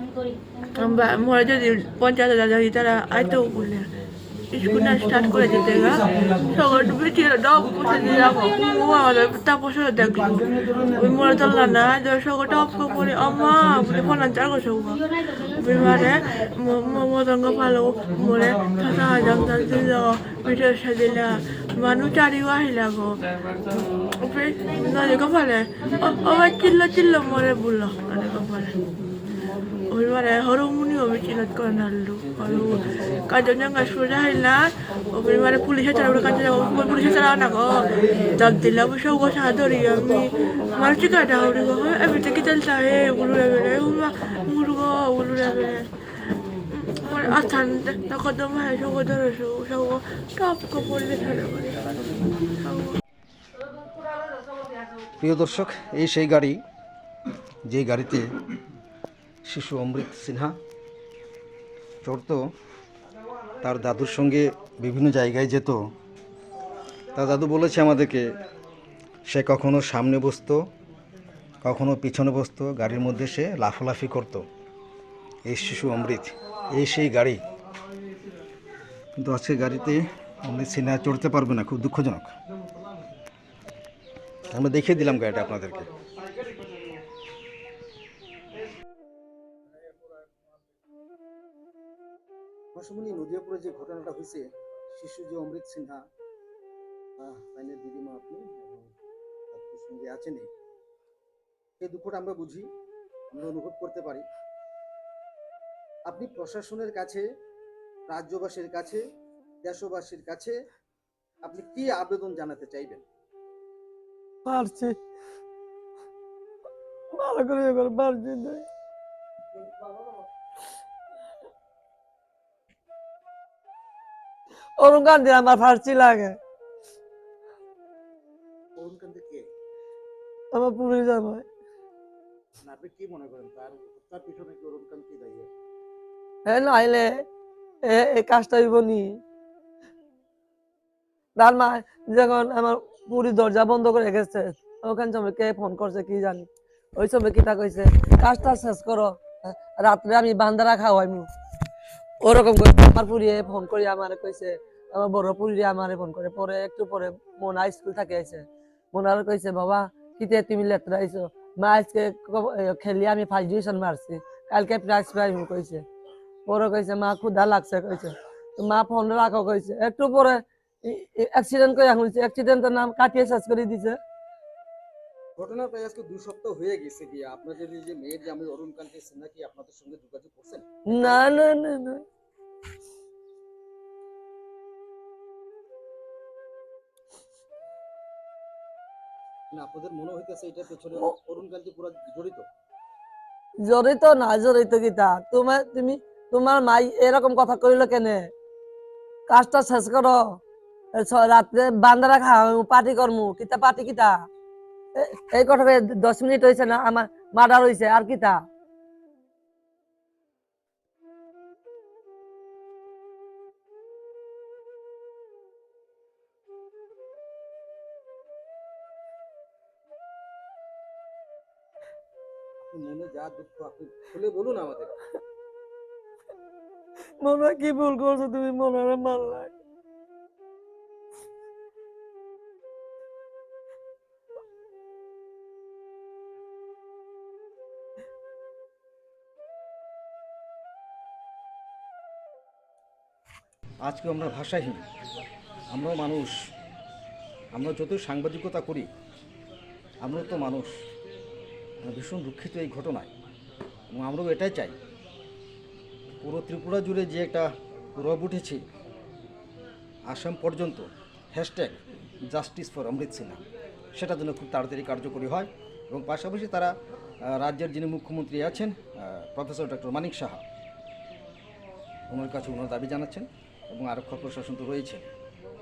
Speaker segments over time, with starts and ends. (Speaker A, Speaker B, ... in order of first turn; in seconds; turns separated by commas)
Speaker A: 0.7-3.9, Speaker A: 4.5-23.2, Speaker A: 24.2-28.9, Speaker A: 29.9-45.8, Speaker A: 46.7-51.9, Speaker A: 52.6-53.0, Speaker B: 55.2-56.6, Speaker B: 57.6-58.3, Speaker B: 59.5-60.5, Speaker B: 62.0-62.4, Speaker B: 63.6-65.8, Speaker B: 67.1-68.3, Speaker B: 69.3-70.6, Speaker B: 71.6-74.5, Speaker B: 75.5-77.4, Speaker B: 79.2-82.3, Speaker B: 84.5-85.9, Speaker B: 92.7-96.0, Speaker B: 97.2-98.9, Speaker B: 99.5-100.5, Speaker B: 101.8-102.7, Speaker B: 103.3-104.2, Speaker B: 106.1-107.2, Speaker B: 108.1-109.0, Speaker B: 109.6-110.6, Speaker B: 111.4-113.0, Speaker C: 114.5-115.0, Speaker C: 117.2-118.6, Speaker C: 124.8-126.4, Speaker B: 128.8-129.5, Speaker C: 130.5-131.5, Speaker B: 132.6-135.5, Speaker C: 136.5-137.1, Speaker C: 137.9-139.2, Speaker C: 141.4-149.2, Speaker C: 149.8-151.3, Speaker C: 152.2-165.8, Speaker C: 166.5-174.0, Speaker B: 175.4-181.3, Speaker C: 180.9-182.0, Speaker B: 189.5-192.5, Speaker C: 193.7-198.3, Speaker C: 199.3-200.2, Speaker C: 201.0-204.2, Speaker C: 205.0-208.4, Speaker B: 222.6-224.9, Speaker C: 227.2-229.5, Speaker B: 243.8-244.8, Speaker B: 245.7-246.4, Speaker B: 247.5-248.9, Speaker B: 250.0-250.8, Speaker B: 251.8-253.1, Speaker B: 253.9-254.8, Speaker B: 256.2-258.6, Speaker B: 260.1-263.4, Speaker B: 263.9-266.7, Speaker B: 267.3-270.4, Speaker B: 272.1-275.1